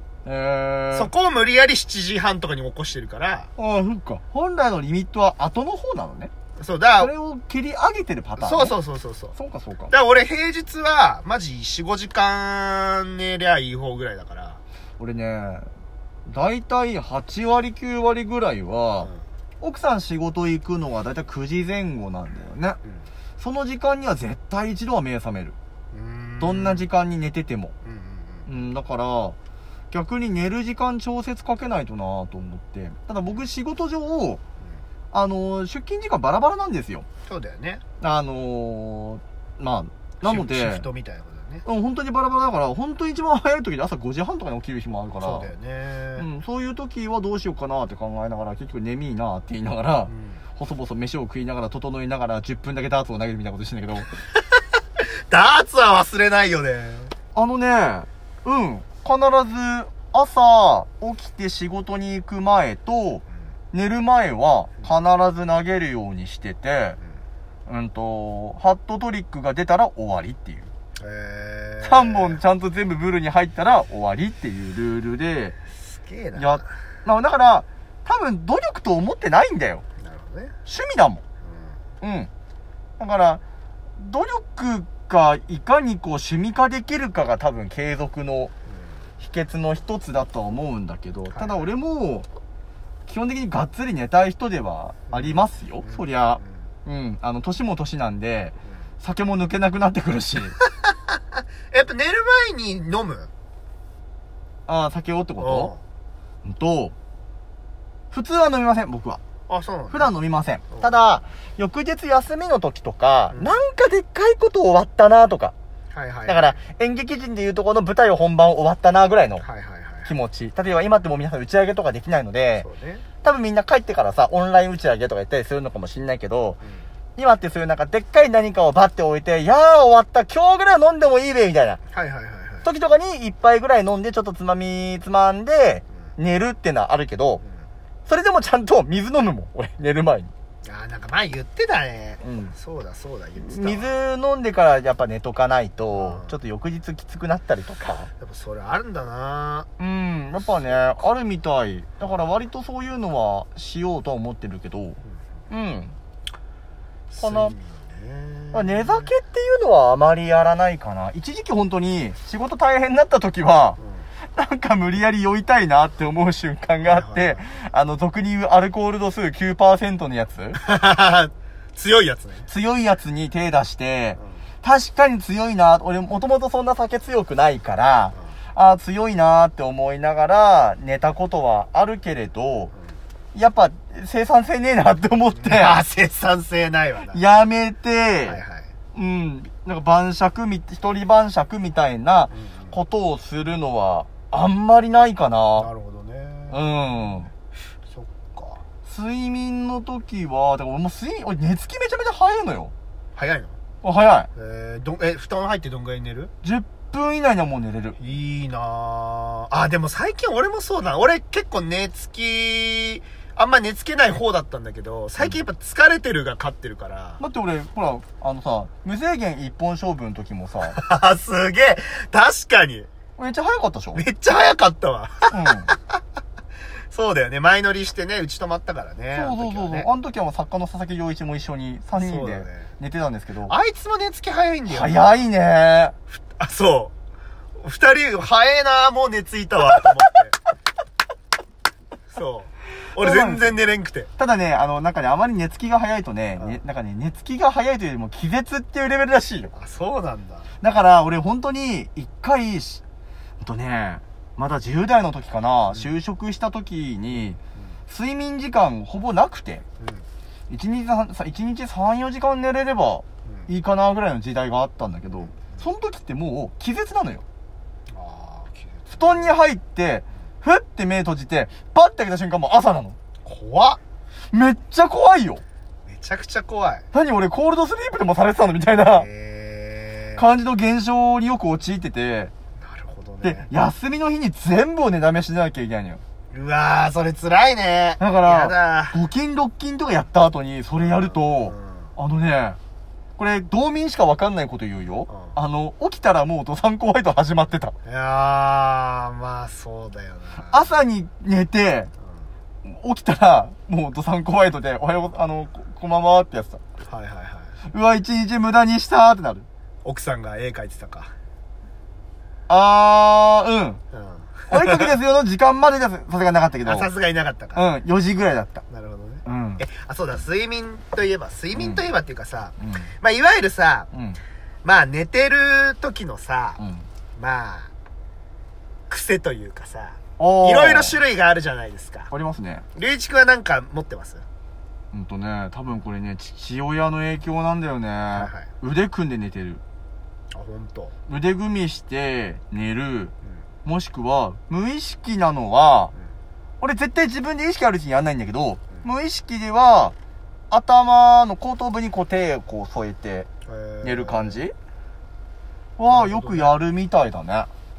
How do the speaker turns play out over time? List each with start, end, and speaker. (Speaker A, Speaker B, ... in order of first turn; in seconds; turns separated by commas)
Speaker A: 0.2-1.1, Speaker B: 0.9-3.5, Speaker A: 3.6-6.3, Speaker B: 6.6-7.1, Speaker A: 7.0-8.8, Speaker B: 8.4-9.3, Speaker A: 9.3-9.9, Speaker B: 9.9-14.6, Speaker A: 15.0-15.7, Speaker A: 16.3-22.8, Speaker A: 23.4-25.6, Speaker B: 25.9-26.9, Speaker A: 26.4-27.7, Speaker B: 27.9-28.5, Speaker A: 28.5-29.4, Speaker A: 29.9-34.4, Speaker A: 35.1-37.1, Speaker B: 37.3-37.8, Speaker A: 38.0-40.9, Speaker B: 40.2-41.6, Speaker A: 41.6-45.5, Speaker B: 45.2-46.3, Speaker A: 46.2-54.1, Speaker B: 50.1-50.4, Speaker B: 54.5-57.1, Speaker A: 57.4-67.0, Speaker A: 67.7-70.7, Speaker B: 71.0-72.4, Speaker A: 71.8-75.6, Speaker B: 75.8-76.7, Speaker A: 76.4-79.8, Speaker B: 80.0-80.5, Speaker A: 80.7-81.2, Speaker B: 81.4-81.8, Speaker A: 82.0-82.3, Speaker A: 83.0-83.4, Speaker A: 84.0-88.5, Speaker A: 89.2-92.3, Speaker B: 91.3-91.7, Speaker A: 93.1-100.6, Speaker B: 95.1-96.7, Speaker B: 101.7-103.3, Speaker A: 104.7-105.7, Speaker B: 105.4-105.8, Speaker A: 106.4-106.9, Speaker A: 108.1-109.2, Speaker B: 109.5-110.1, Speaker A: 109.9-115.5, Speaker B: 113.3-113.6, Speaker B: 115.9-116.6, Speaker A: 116.3-119.5, Speaker B: 119.4-120.1, Speaker A: 120.1-122.7, Speaker B: 122.6-123.0, Speaker A: 123.2-126.6, Speaker B: 126.6-126.9, Speaker A: 127.2-131.8, Speaker B: 131.9-132.7, Speaker A: 132.6-137.4, Speaker A: 138.1-140.3, Speaker B: 140.7-143.9, Speaker A: 142.2-142.6, Speaker A: 143.4-148.1, Speaker B: 145.9-146.4, Speaker B: 148.2-149.7, Speaker A: 149.8-155.0, Speaker A: 155.5-155.9, Speaker B: 157.1-159.1, Speaker A: 157.2-157.6, Speaker A: 158.5-163.8, Speaker B: 163.8-164.1, Speaker A: 164.3-170.6, Speaker B: 166.8-167.4, Speaker B: 170.6-172.5, Speaker A: 172.5-182.7, Speaker B: 174.2-174.4, Speaker A: 183.3-185.8, Speaker B: 185.3-187.2, Speaker A: 187.1-188.4, Speaker B: 188.2-188.7, Speaker A: 188.9-195.7, Speaker B: 192.3-192.8, Speaker B: 195.6-197.2, Speaker A: 196.5-197.3, Speaker B: 197.9-198.6, Speaker A: 198.9-202.7, Speaker B: 203.2-203.6, Speaker A: 203.8-204.3, Speaker B: 204.3-206.3, Speaker A: 206.4-208.0, Speaker B: 208.0-217.2, Speaker A: 217.2-220.8, Speaker B: 220.7-222.9, Speaker A: 223.2-224.0, Speaker B: 223.9-225.8, Speaker A: 225.3-225.7, Speaker B: 226.9-229.9, Speaker A: 229.1-233.5, Speaker B: 231.9-232.7, Speaker B: 233.5-235.1, Speaker A: 234.7-235.9, Speaker B: 236.1-236.9, Speaker B: 237.6-240.4, Speaker B: 242.1-244.1, Speaker A: 243.0-243.6, Speaker A: 244.2-249.5, Speaker B: 249.5-250.5, Speaker A: 250.6-252.8, Speaker A: 253.4-257.4, Speaker B: 255.7-255.9, Speaker A: 257.9-259.6, Speaker B: 259.8-260.1, Speaker A: 260.5-267.2, Speaker B: 263.2-263.5, Speaker B: 265.2-265.6, Speaker B: 267.9-269.3, Speaker A: 268.9-273.0, Speaker B: 273.2-273.8, Speaker A: 274.3-275.4, Speaker B: 275.9-276.9, Speaker A: 276.9-279.1, Speaker B: 278.9-280.2, Speaker A: 280.2-282.3, Speaker B: 282.6-283.5, Speaker A: 283.2-286.0, Speaker B: 286.3-289.0, Speaker A: 288.0-292.6, Speaker B: 290.8-291.9, Speaker A: 293.2-297.8, Speaker B: 295.1-295.4, Speaker B: 297.9-300.8, Speaker A: 300.5-301.9, Speaker A: 302.6-306.6, Speaker B: 306.9-307.5, Speaker A: 307.7-309.5, Speaker B: 309.8-311.1, Speaker A: 312.5-313.8, Speaker B: 313.9-314.9, Speaker A: 314.5-316.9, Speaker B: 316.6-317.7, Speaker A: 317.6-318.6, Speaker B: 318.7-323.9, Speaker A: 319.2-319.6, Speaker A: 321.5-321.9, Speaker A: 322.6-322.9, Speaker A: 323.9-324.2, Speaker B: 324.6-326.6, Speaker A: 326.6-326.9, Speaker B: 327.2-327.7, Speaker B: 328.9-332.1, Speaker A: 330.2-331.0, Speaker A: 332.1-332.6, Speaker B: 332.8-334.2, Speaker A: 334.9-339.6, Speaker B: 338.1-338.5, Speaker B: 340.3-340.9, Speaker A: 341.1-343.1, Speaker A: 343.6-345.9, Speaker A: 346.6-349.9, Speaker A: 350.5-353.3, Speaker B: 353.5-354.4, Speaker A: 353.8-354.5, Speaker A: 355.8-357.5, Speaker B: 355.9-356.6